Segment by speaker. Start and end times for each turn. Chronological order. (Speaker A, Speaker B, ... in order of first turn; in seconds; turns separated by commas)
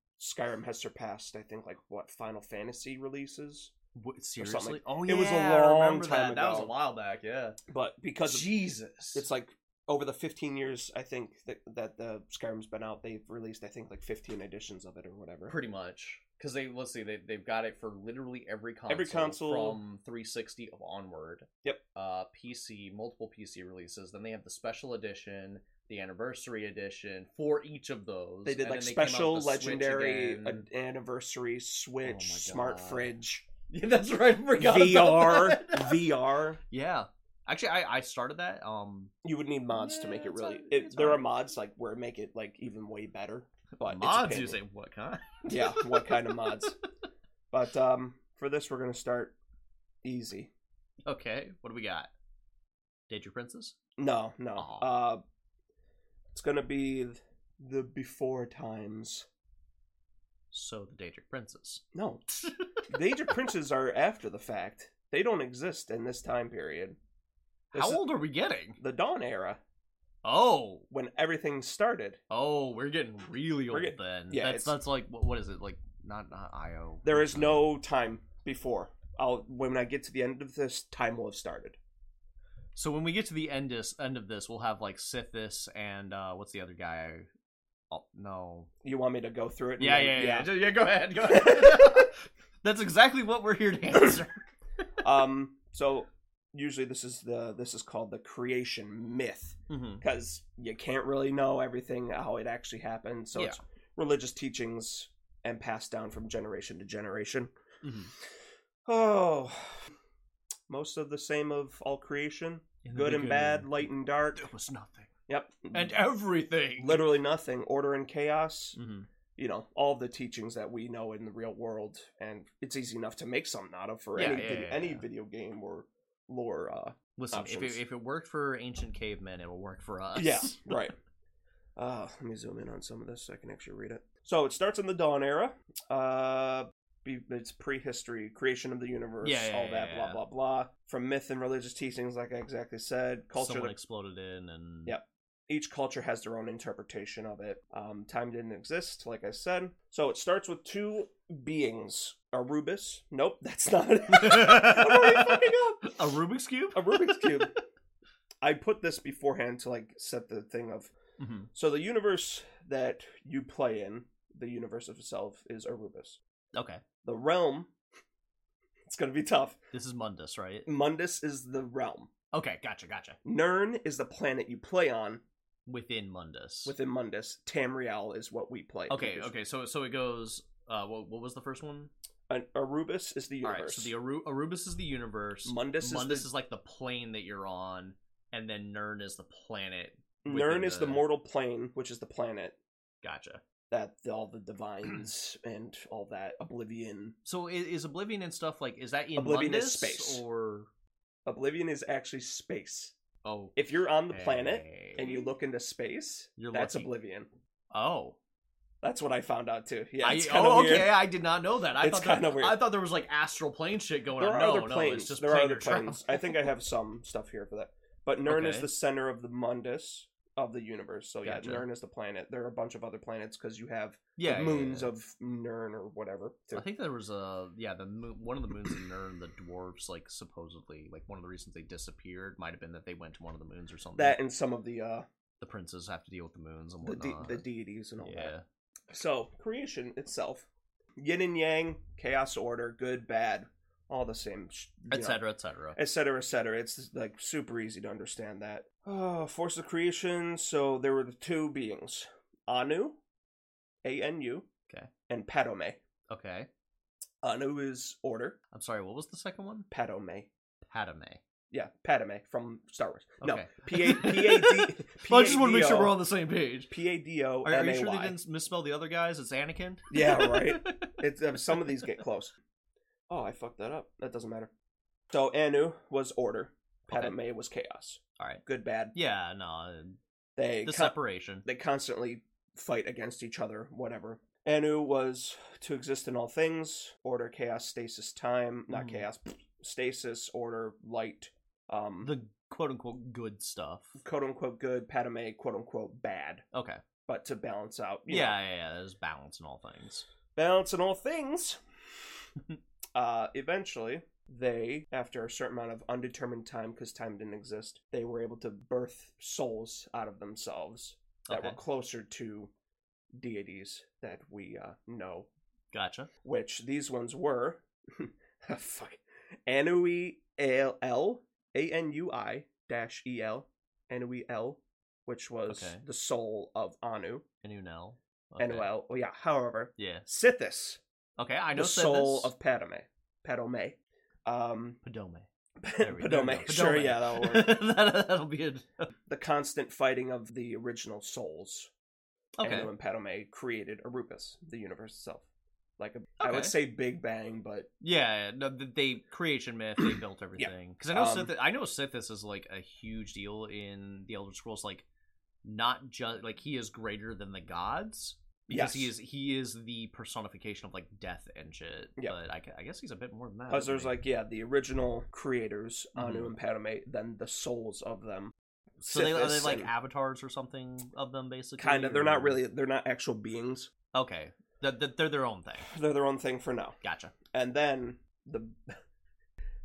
Speaker A: 0.2-3.7, Speaker B: 4.0-7.6, Speaker A: 4.4-6.7, Speaker A: 7.7-8.5, Speaker B: 8.2-9.3, Speaker A: 9.1-15.6, Speaker B: 15.5-30.7, Speaker A: 18.9-19.8, Speaker A: 28.4-33.5, Speaker B: 32.0-33.1, Speaker B: 33.7-36.1, Speaker A: 34.6-36.6, Speaker B: 36.6-39.1, Speaker A: 39.2-44.6, Speaker B: 39.7-41.3, Speaker B: 43.8-46.7, Speaker A: 45.5-46.8, Speaker A: 47.5-49.3, Speaker A: 50.0-50.5, Speaker B: 51.0-52.1, Speaker B: 53.1-53.8, Speaker A: 54.0-55.2, Speaker B: 54.6-54.9, Speaker A: 56.3-59.3, Speaker B: 60.5-63.3, Speaker A: 61.9-62.2, Speaker A: 62.9-67.0, Speaker B: 67.7-68.8, Speaker A: 67.7-68.0, Speaker A: 68.8-69.6, Speaker B: 70.2-70.9, Speaker A: 70.9-72.2, Speaker B: 72.3-77.7, Speaker A: 73.7-74.8, Speaker A: 77.0-81.8, Speaker B: 82.8-87.3, Speaker B: 87.9-88.7, Speaker A: 88.8-90.5, Speaker B: 89.8-94.5, Speaker A: 91.3-92.1, Speaker A: 95.0-107.5, Speaker B: 99.7-100.0, Speaker B: 103.3-103.6, Speaker B: 107.8-108.1, Speaker A: 108.9-109.9, Speaker A: 110.7-114.5, Speaker B: 112.8-113.8, Speaker B: 114.3-115.1, Speaker A: 115.3-116.0, Speaker B: 115.7-117.0, Speaker A: 116.8-118.8, Speaker B: 118.8-119.1, Speaker A: 119.4-127.8, Speaker B: 124.1-125.1, Speaker B: 127.2-130.8, Speaker A: 130.1-130.9, Speaker A: 131.8-143.7, Speaker B: 139.2-140.2, Speaker B: 143.4-144.9, Speaker A: 144.9-156.0, Speaker B: 154.1-157.6, Speaker A: 156.7-157.5, Speaker A: 158.4-160.9, Speaker B: 161.2-161.5, Speaker A: 161.5-166.2, Speaker B: 166.5-166.8, Speaker A: 167.0-167.7, Speaker A: 168.9-169.6, Speaker B: 169.7-170.7, Speaker A: 170.7-172.1, Speaker B: 172.3-173.2, Speaker A: 173.2-175.2, Speaker B: 175.7-176.8, Speaker A: 176.7-179.3, Speaker B: 178.9-181.9, Speaker A: 182.3-183.9, Speaker B: 183.4-191.0, Speaker A: 185.4-186.3, Speaker A: 190.2-192.6, Speaker B: 193.0-193.4, Speaker A: 193.7-197.1, Speaker B: 197.2-200.7, Speaker A: 199.2-200.2, Speaker A: 201.3-202.9, Speaker B: 203.2-203.6, Speaker A: 203.6-207.3, Speaker B: 204.1-205.3, Speaker B: 206.4-206.9, Speaker B: 207.7-208.2, Speaker A: 208.8-211.0, Speaker B: 210.0-216.4, Speaker A: 211.8-212.6, Speaker A: 214.2-226.7, Speaker B: 218.3-218.7, Speaker B: 221.2-221.7, Speaker B: 224.2-224.9, Speaker B: 226.5-234.2, Speaker A: 234.0-235.1, Speaker B: 235.4-237.4, Speaker A: 236.8-238.3, Speaker B: 238.0-238.4, Speaker A: 238.9-240.5, Speaker A: 241.0-245.2, Speaker B: 244.9-245.8, Speaker A: 245.8-253.0, Speaker A: 253.8-254.5, Speaker A: 255.1-255.8, Speaker B: 256.1-256.5, Speaker A: 257.2-258.4, Speaker B: 258.5-259.7, Speaker A: 259.7-260.3, Speaker B: 260.7-261.2, Speaker A: 261.5-266.0, Speaker B: 263.2-266.7, Speaker A: 266.7-268.2, Speaker B: 267.4-271.0, Speaker A: 269.9-272.4, Speaker A: 273.1-274.5, Speaker A: 275.1-278.9, Speaker B: 276.9-277.1, Speaker B: 278.9-280.0, Speaker A: 280.4-292.1, Speaker B: 280.6-281.4, Speaker B: 288.7-289.1, Speaker B: 292.0-294.0, Speaker A: 294.0-296.4, Speaker B: 296.5-296.8, Speaker A: 297.1-298.4, Speaker B: 298.1-300.1, Speaker A: 300.4-301.6, Speaker A: 302.9-312.5, Speaker B: 311.3-311.6, Speaker A: 313.2-315.3, Speaker B: 315.7-316.1, Speaker A: 316.2-327.2, Speaker B: 325.5-325.9, Speaker B: 327.4-328.7, Speaker A: 328.4-330.8, Speaker B: 329.8-330.1, Speaker B: 331.2-332.3, Speaker A: 331.6-334.8, Speaker B: 334.8-335.3, Speaker A: 335.6-337.6, Speaker B: 335.8-338.9, Speaker A: 339.1-341.7, Speaker B: 342.4-342.7, Speaker A: 342.4-345.3, Speaker A: 345.8-347.7, Speaker B: 346.2-346.6, Speaker B: 347.8-354.9, Speaker A: 350.4-351.3, Speaker B: 355.4-364.0, Speaker A: 358.5-358.9, Speaker A: 363.5-369.7, Speaker B: 366.0-366.3, Speaker B: 368.9-372.4, Speaker A: 371.6-373.7, Speaker B: 373.9-375.7, Speaker A: 375.6-376.8, Speaker B: 376.8-377.1, Speaker A: 377.3-378.8